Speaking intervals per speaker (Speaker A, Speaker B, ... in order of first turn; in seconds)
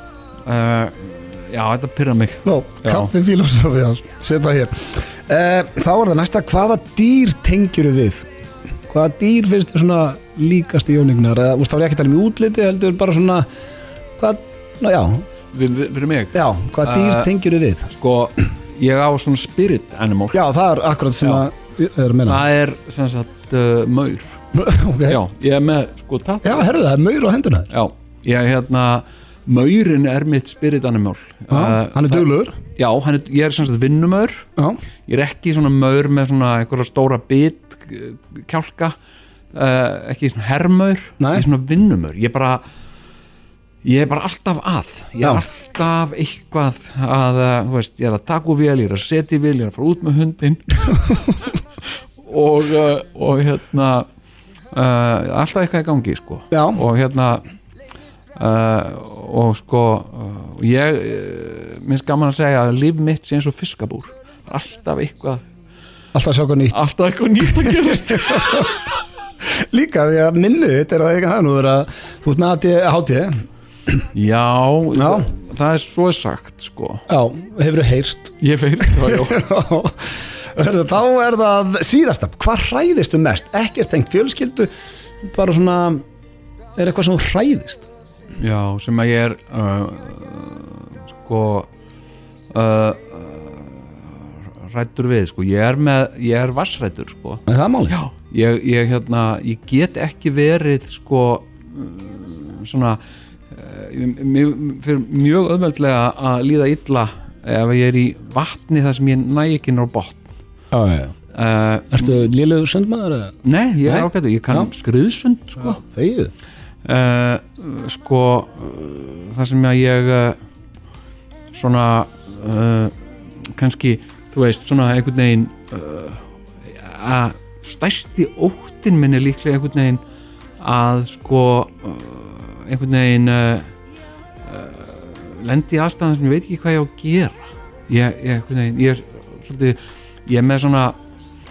Speaker A: 0.5-3.1, 15.5-17.3, 17.9-20.4, 21.2-21.5, 22.2-24.4, 25.1-26.7, 27.7-34.5, 35.1-39.0, 39.5-42.6, 43.8-51.4, 52.2-54.1, 54.7-57.4, 58.4-65.4, 66.7-68.8, 74.1-77.0, 78.4-79.4, 88.4-91.7, 92.5-103.0, 103.5-110.3, 111.3-112.3, 113.4-115.8, 116.8-120.4, 121.5-130.0, 130.6-133.7, 134.4-141.0
Speaker B: 2.5-8.3, 8.9-13.5, 14.2-15.3, 16.3-17.9, 20.3-22.4, 24.5-25.2, 26.4-27.7, 31.5-32.5, 41.2-41.5, 56.5-56.8, 66.1-66.8, 67.6-68.7, 69.6-73.5, 75.0-75.3, 77.1-84.7, 85.2-86.0, 86.8-87.9, 97.5-98.0, 110.7-111.2, 111.9-114.7, 115.6-116.3